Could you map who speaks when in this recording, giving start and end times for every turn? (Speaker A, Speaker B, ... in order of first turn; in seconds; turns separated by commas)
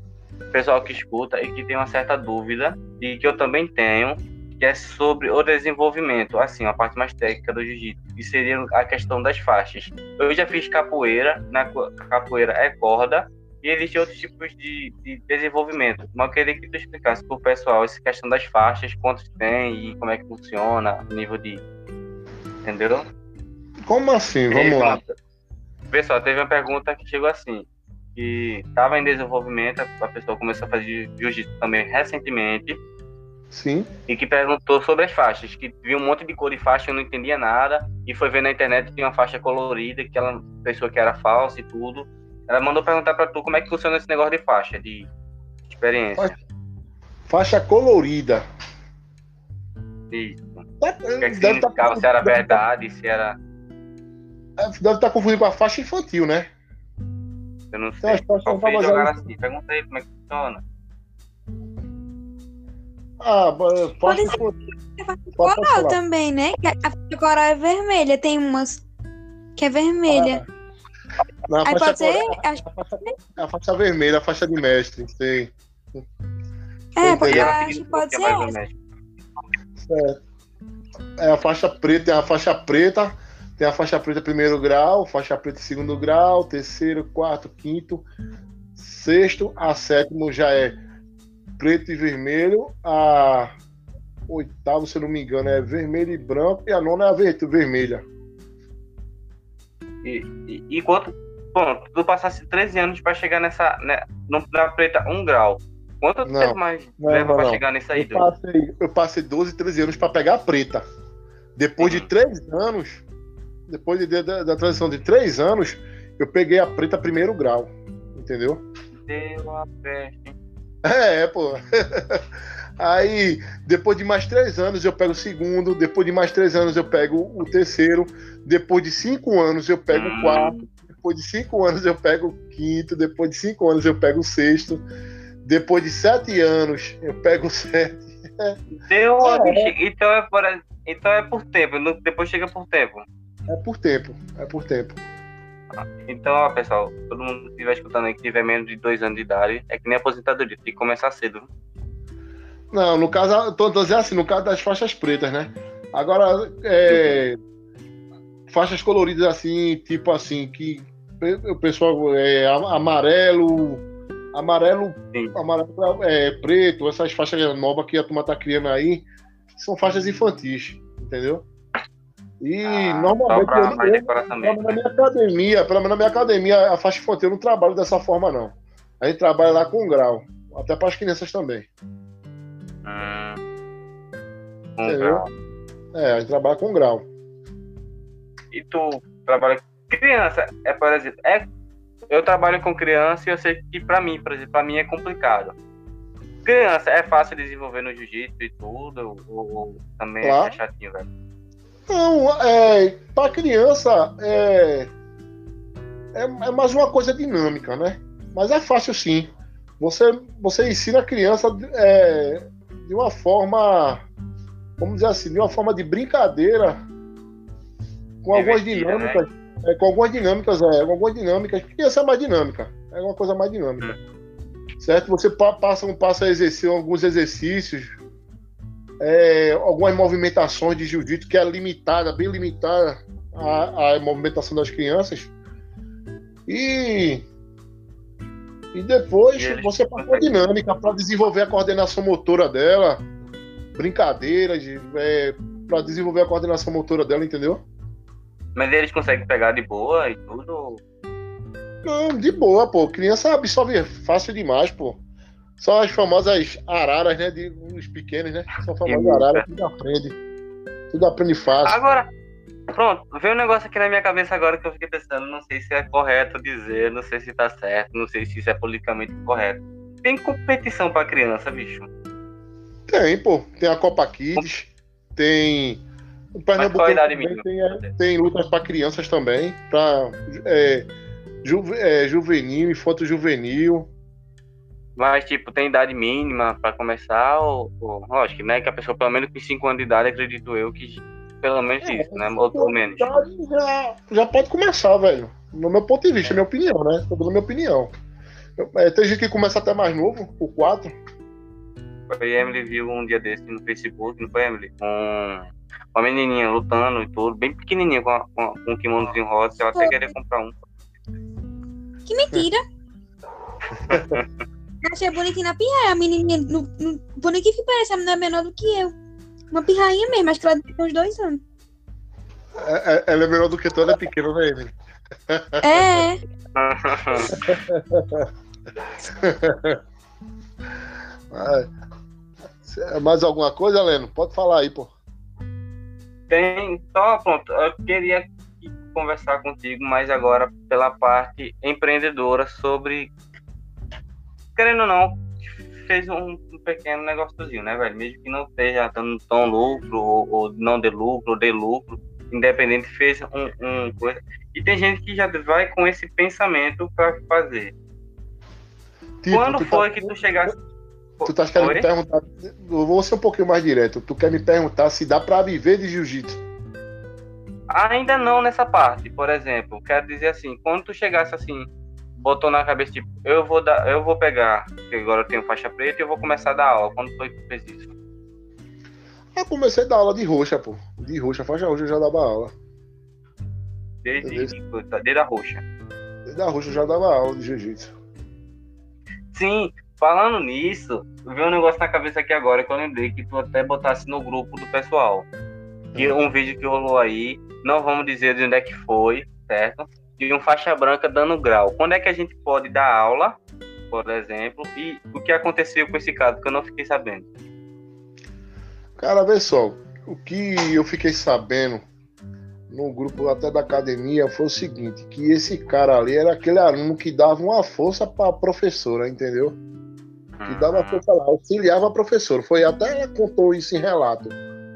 Speaker A: 0.5-21.6, Speaker A: 22.6-23.1, Speaker B: 23.9-25.0, Speaker A: 24.5-25.1, Speaker A: 25.9-32.8, Speaker B: 33.5-33.9, Speaker A: 34.1-45.1, Speaker A: 45.7-46.4, Speaker B: 47.3-48.4, Speaker A: 50.1-50.6, Speaker B: 50.8-52.6, Speaker A: 51.2-53.4, Speaker B: 54.6-56.5, Speaker A: 57.7-60.6, Speaker B: 58.0-59.2, Speaker B: 63.2-64.6, Speaker C: 64.0-64.4, Speaker C: 65.0-68.8, Speaker B: 65.4-66.0, Speaker C: 69.6-70.4, Speaker B: 70.1-70.5, Speaker B: 71.5-76.0, Speaker C: 71.6-73.2, Speaker C: 77.0-78.5, Speaker B: 77.0-77.6, Speaker A: 77.2-78.8, Speaker B: 79.8-80.2, Speaker B: 81.2-88.0, Speaker B: 88.8-90.8, Speaker B: 91.6-93.5, Speaker B: 94.3-98.0, Speaker A: 100.0-108.3, Speaker B: 106.2-110.8, Speaker B: 111.5-113.0, Speaker A: 111.8-112.1, Speaker B: 113.7-118.6, Speaker A: 119.0-120.3, Speaker B: 120.8-122.2, Speaker B: 122.8-134.8, Speaker A: 129.9-130.7, Speaker B: 135.4-138.6, Speaker A: 138.7-143.0, Speaker B: 139.2-139.7, Speaker B: 143.5-145.0, Speaker A: 145.7-151.5, Speaker B: 152.7-157.4, Speaker A: 156.9-157.2, Speaker B: 158.5-171.4, Speaker B: 172.4-181.7, Speaker A: 172.6-174.8, Speaker A: 182.8-183.4, Speaker A: 184.8-185.3, Speaker B: 184.8-185.2, Speaker B: 185.9-187.1, Speaker A: 188.5-191.5, Speaker A: 192.1-195.5, Speaker A: 196.4-201.1, Speaker B: 200.2-200.6, Speaker B: 201.9-204.9, Speaker B: 206.1-214.1, Speaker B: 214.8-216.8, Speaker B: 218.2-223.9, Speaker A: 218.3-219.2, Speaker B: 224.8-228.0, Speaker B: 229.0-235.3, Speaker B: 236.5-237.2, Speaker B: 238.7-243.0, Speaker A: 239.3-240.5, Speaker B: 243.8-247.6, Speaker A: 248.6-250.8, Speaker B: 251.8-255.0, Speaker B: 255.6-260.1, Speaker A: 258.8-259.4, Speaker B: 260.9-261.8, Speaker A: 261.6-262.1, Speaker A: 262.7-271.9, Speaker B: 272.9-275.8, Speaker B: 276.4-280.9, Speaker A: 276.6-277.9, Speaker B: 281.4-283.9, Speaker A: 285.0-293.3, Speaker B: 291.8-297.9, Speaker B: 298.6-300.9, Speaker A: 302.1-310.5, Speaker C: 312.1-312.6, Speaker B: 313.9-314.2, Speaker A: 313.9-314.4, Speaker C: 314.8-318.9, Speaker C: 319.5-321.4, Speaker B: 322.6-324.7, Speaker B: 325.3-326.0, Speaker C: 325.6-326.2, Speaker A: 326.5-327.3, Speaker B: 327.3-328.3, Speaker B: 329.1-329.8, Speaker B: 331.3-331.7, Speaker B: 332.6-334.9, Speaker A: 336.3-343.1, Speaker A: 344.6-357.7, Speaker B: 359.2-360.5, Speaker A: 359.3-360.6, Speaker A: 361.2-361.9, Speaker B: 361.2-366.4, Speaker A: 367.7-377.9, Speaker B: 379.3-382.5, Speaker A: 384.0-385.6, Speaker B: 384.2-384.5, Speaker B: 386.3-387.9, Speaker A: 389.3-395.2, Speaker A: 395.9-403.4, Speaker A: 403.9-407.3, Speaker B: 409.0-411.8, Speaker B: 412.7-419.6, Speaker A: 420.4-421.0, Speaker B: 420.4-424.4